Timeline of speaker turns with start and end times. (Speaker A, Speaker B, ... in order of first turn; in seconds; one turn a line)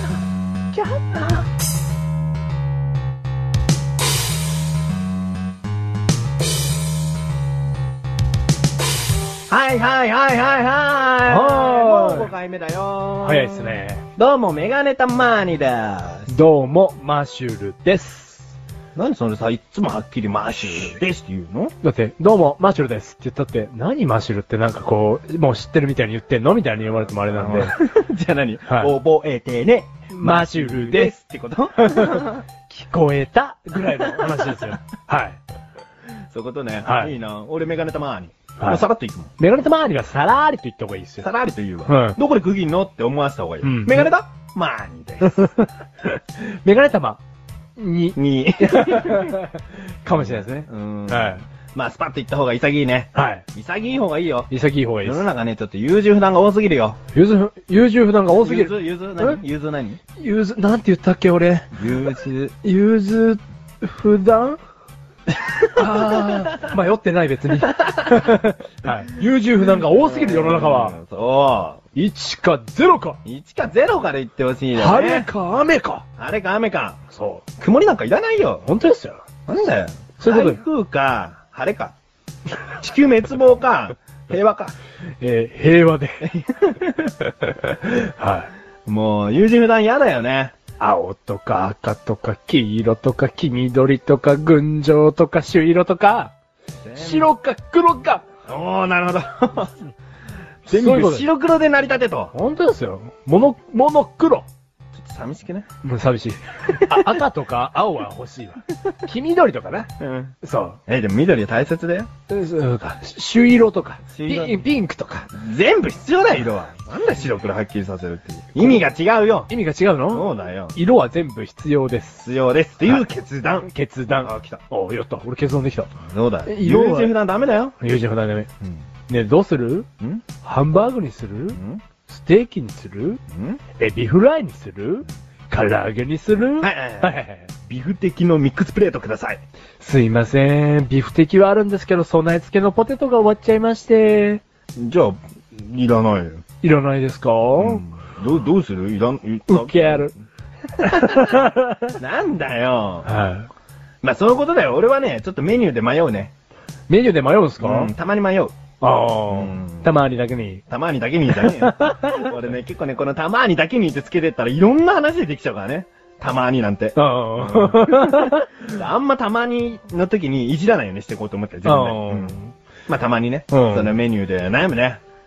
Speaker A: 0.8-1.4
Speaker A: 9.5-16.3
Speaker B: 11.3-12.3
Speaker B: 13.2-14.0
Speaker B: 16.3-18.6
Speaker A: 18.9-21.7
Speaker B: 21.8-27.7
Speaker A: 27.2-32.4
Speaker B: 28.7-28.9
Speaker B: 30.1-31.1
Speaker B: 31.8-35.4
Speaker A: 33.9-34.7
Speaker A: 36.3-39.3
Speaker B: 36.9-37.1
Speaker B: 38.6-38.9
Speaker B: 39.4-41.3
Speaker A: 41.2-45.5
Speaker B: 41.9-42.2
Speaker B: 43.6-44.1
Speaker B: 45.2-47.2
Speaker B: 47.8-51.4
Speaker A: 48.2-49.4
Speaker A: 50.1-54.5
Speaker B: 53.1-53.5
Speaker B: 54.5-55.2
Speaker A: 55.0-57.0
Speaker B: 57.1-59.4
Speaker A: 58.3-60.0
Speaker B: 60.2-61.7
Speaker A: 61.7-62.5
Speaker B: 62.6-64.6
Speaker B: 65.7-71.0
Speaker A: 65.8-66.7
Speaker A: 67.7-68.4
Speaker A: 69.7-71.8
Speaker B: 72.0-73.2
Speaker A: 73.2-75.3
Speaker B: 74.7-76.0
Speaker A: 76.2-77.0
Speaker B: 77.1-77.4
Speaker A: 77.6-78.7
Speaker B: 78.7-79.2
Speaker A: 79.5-82.0
Speaker B: 80.2-80.6
Speaker A: 82.8-84.8
Speaker B: 85.2-86.3
Speaker A: 86.2-87.2
Speaker B: 87.4-88.5
Speaker A: 88.9-90.5
Speaker B: 90.8-96.3
Speaker A: 96.8-97.3
Speaker B: 97.0-98.2
Speaker A: 98.5-99.7
Speaker A: 100.7-102.3
Speaker B: 100.7-101.3
Speaker B: 102.3-104.5
Speaker A: 104.9-105.7
Speaker B: 105.8-109.9
Speaker A: 106.8-107.2
Speaker A: 110.0-110.3
Speaker B: 110.4-110.8
Speaker A: 110.9-112.1
Speaker B: 112.3-115.3
Speaker A: 114.1-114.7
Speaker A: 115.3-119.5
Speaker B: 118.6-118.9
Speaker B: 119.5-122.3
Speaker A: 120.1-120.8
Speaker A: 122.2-123.7
Speaker B: 123.6-125.9
Speaker A: 124.2-124.6
Speaker A: 126.0-127.7
Speaker B: 126.5-127.2
Speaker B: 127.8-128.5
Speaker B: 129.1-129.9
Speaker B: 130.4-133.2
Speaker A: 131.5-131.8
Speaker A: 133.3-133.6
Speaker B: 133.8-137.5
Speaker A: 136.6-139.4
Speaker B: 139.8-144.4
Speaker A: 144.8-146.4
Speaker B: 146.6-147.8
Speaker A: 147.6-150.1
Speaker B: 149.5-150.1
Speaker B: 150.8-152.0
Speaker A: 150.8-151.4
Speaker A: 152.0-153.1
Speaker B: 153.1-153.5
Speaker A: 154.0-156.3
Speaker B: 156.9-157.9
Speaker A: 157.6-158.5
Speaker B: 158.8-160.6
Speaker A: 159.3-159.9
Speaker A: 160.7-175.0
Speaker B: 161.3-162.3
Speaker B: 167.0-168.6
Speaker B: 171.7-172.5
Speaker B: 173.5-174.0